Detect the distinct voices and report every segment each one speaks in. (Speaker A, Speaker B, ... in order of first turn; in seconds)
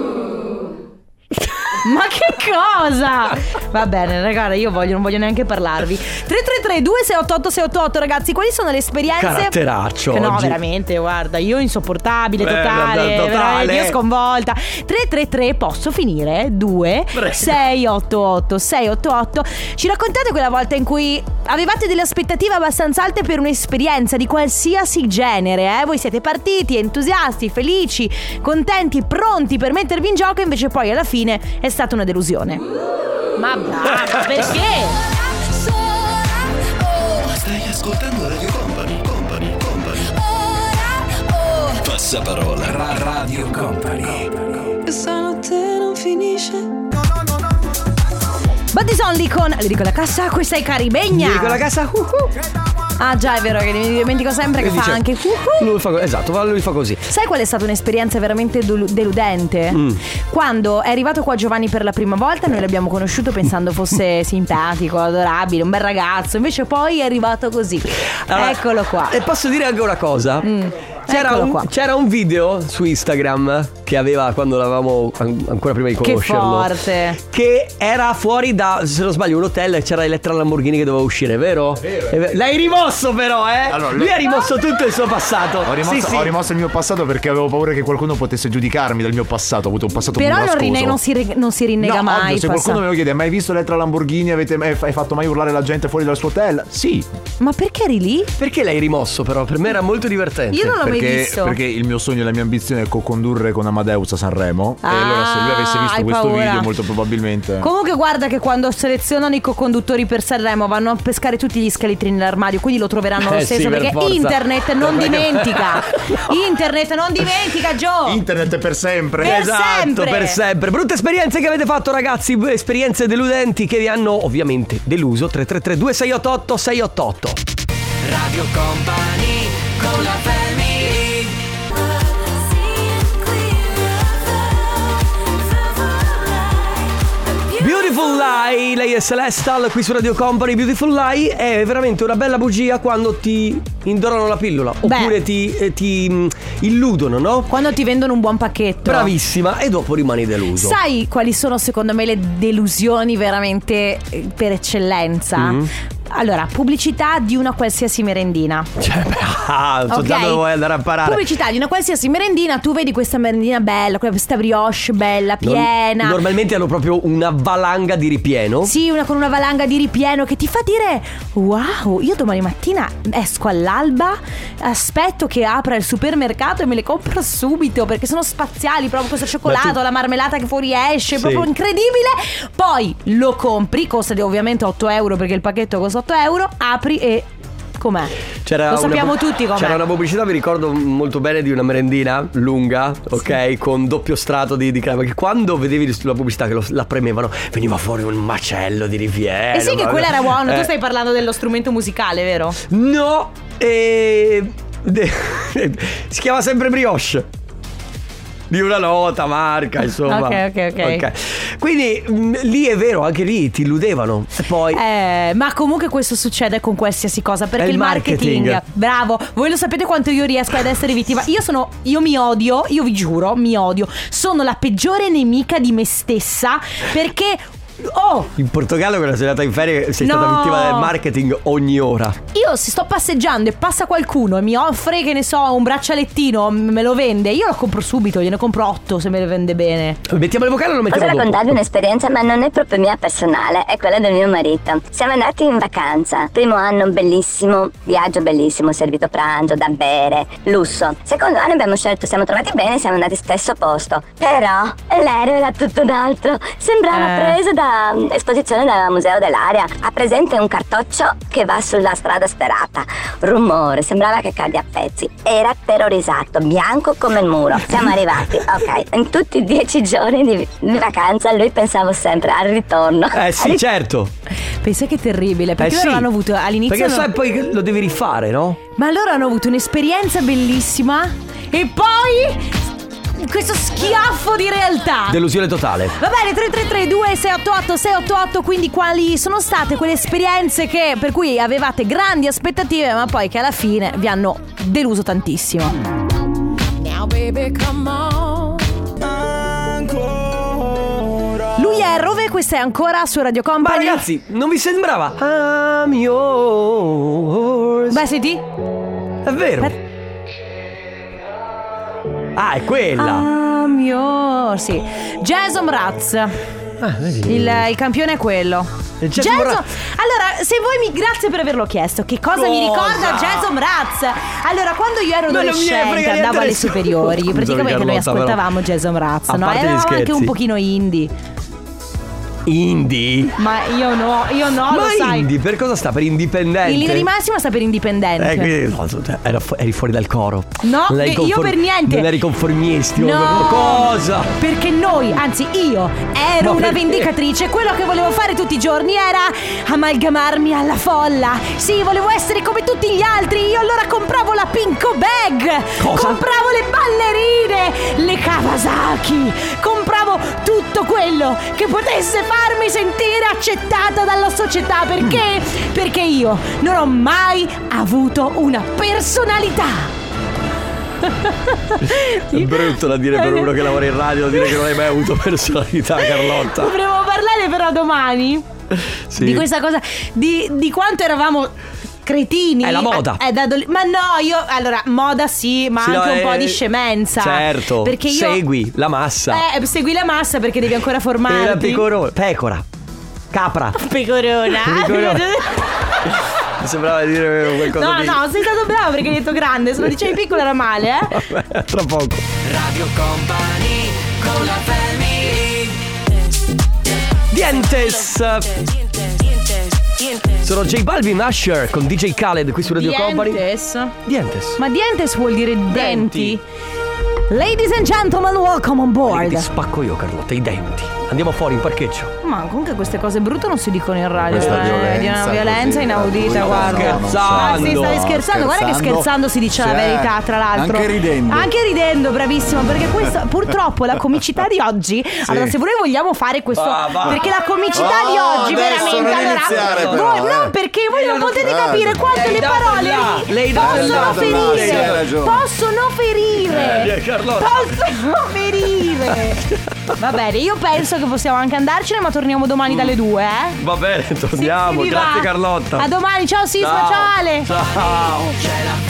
Speaker A: 1.8-9.6, 10.1-32.6, 33.4-35.0, 41.1-41.6, 48.7-51.6, 53.0-55.7, 57.1-69.2, 70.4-71.7, 76.0-77.2, 90.1-92.8, 97.4-98.3, 100.5-101.5, 104.8-106.7, 107.6-118.2, 119.2-120.4, 144.8-145.2, 147.5-149.1, 150.6-158.7, 159.9-160.5, 161.0-166.2, 168.6-187.3, 187.8-188.1, 188.7-189.8, 199.5-202.6, 210.0-211.1, 214.7-228.3, 230.0-230.9, 232.3-240.0, 256.9-257.4, 274.6-277.1, 278.8-282.6, 283.1-285.2, 285.9-295.8, 296.8-298.6, 301.5-304.0, 307.9-308.4, 313.0-316.3, 317.2-331.1, 333.4-335.3, 336.6-338.5, 340.6-342.1, 342.9-369.9, 371.0-373.7, 376.0-378.4, 379.2-381.5, 382.0-388.4, 389.3-391.9, 393.7-395.7, 397.6-401.2, 412.8-413.9, 414.6-416.4, 417.3-419.5, 422.2-449.4, 450.0-453.6, 454.3-457.5
Speaker B: 9.2-10.6, 12.4-14.0, 17.1-17.6, 34.0-34.5, 38.9-40.0, 43.8-46.7, 51.1-52.3, 54.6-57.0, 59.7-60.0, 68.0-70.5, 71.1-86.4, 98.4-100.8, 113.2-116.2, 119.2-127.4, 128.4-131.2, 137.5-147.5, 148.8-150.8, 155.3-155.7, 158.8-161.2, 165.4-168.7, 179.4-179.8, 181.1-181.5, 188.4-200.7, 202.7-207.3, 208.5-214.8, 217.6-218.6, 228.3-232.2, 240.0-241.6, 273.1-274.1, 275.6-276.1, 276.7-278.6, 285.1-285.9, 303.6-308.0, 309.2-309.7, 312.3-313.3, 316.8-317.6, 319.0-319.6, 322.3-323.5, 325.3-328.4, 329.3-330.3, 332.4-333.4, 334.7-337.1, 338.2-344.3, 346.4-347.1, 355.8-356.2, 371.8-376.8, 378.7-379.5, 382.6-383.2, 385.8-389.4, 391.2-392.6, 393.3-393.9, 394.4-395.6, 396.5-398.4, 399.9-400.1, 401.1-402.3, 403.4-405.4, 407.3-408.7, 410.2-413.4, 414.0-414.6, 415.7-416.4, 419.1-422.1, 424.3-424.7, 426.3-428.2, 436.5-437.3, 438.3-440.2, 440.9-445.3, 446.4-447.9, 449.0-450.0, 453.6-455.9, 456.6-458.8
Speaker C: 37.4-39.1, 41.9-44.0, 402.6-403.7
Speaker D: 81.8-82.1, 83.7-84.3, 85.6-91.0, 91.8-97.0, 100.7-107.7, 118.0-119.3, 424.3-429.0, 429.6-431.4, 437.8-440.5, 441.6-441.8, 444.7-445.4
Speaker E: 240.9-273.6